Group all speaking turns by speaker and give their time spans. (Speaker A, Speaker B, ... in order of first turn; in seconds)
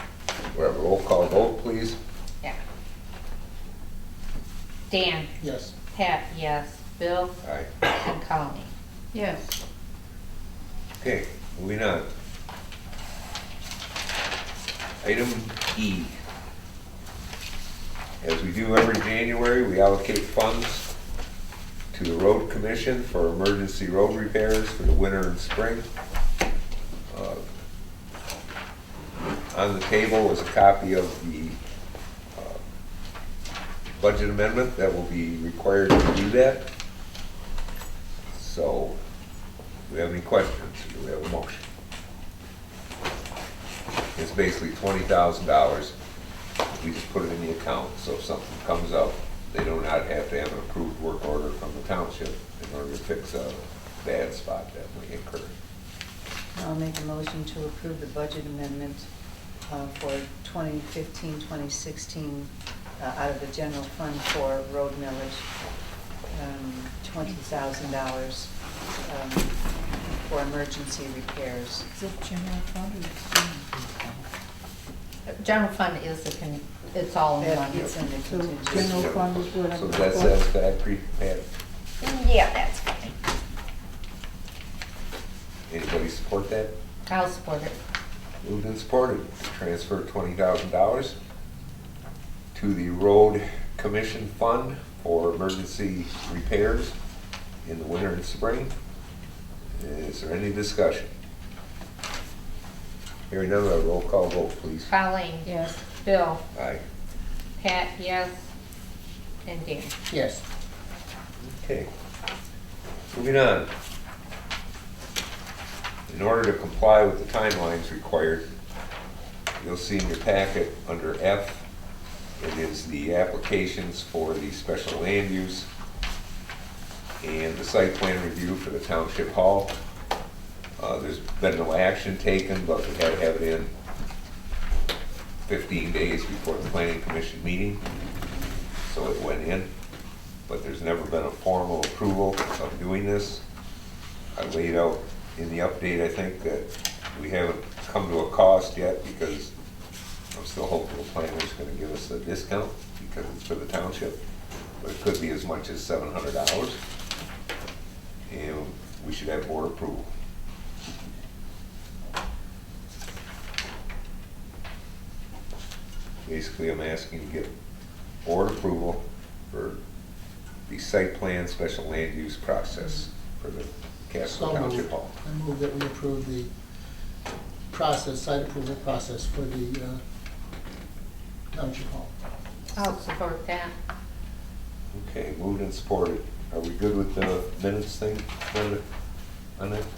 Speaker A: 0.5-2.0, 7.4-7.7, 11.0-12.1, 15.0-16.2, 18.2-20.9, 21.9-25.9, 27.1-27.4, 29.5-31.6, 32.3-32.6, 33.9-36.6, 38.3-39.0, 39.9-41.6, 44.1-45.9, 46.7-55.5, 78.7-81.4, 85.7-86.7, 88.4-91.2, 92.5-96.9, 97.6-98.7, 99.7-101.1, 103.3-104.9, 106.5-106.8, 111.4-111.9, 113.1-113.7, 116.1-118.5, 119.6-121.6, 122.4-125.7, 127.2-129.7, 130.8-133.7, 135.5-137.8, 138.8-139.7, 140.5-143.4, 144.3-149.5, 150.3-154.2, 154.8-156.8, 158.3-160.1, 166.2-167.5, 168.2-169.8, 170.7-175.1, 184.9-188.8, 189.6-189.9
Speaker B: 4.9-5.3, 5.9-8.7, 75.2-78.0, 82.0-83.1, 87.1-87.8, 104.9-106.4, 107.6-108.3, 109.4-109.9, 182.7-183.7
Speaker C: 5.4-5.7, 110.1-110.4, 174.3-176.5, 177.7-180.0, 181.5-182.1
Speaker D: 9.1-9.6, 56.5-59.1, 59.6-65.5, 66.3-69.5, 70.1-71.8, 77.4-79.1
Speaker E: 71.9-74.2, 78.2-80.4, 105.5-105.8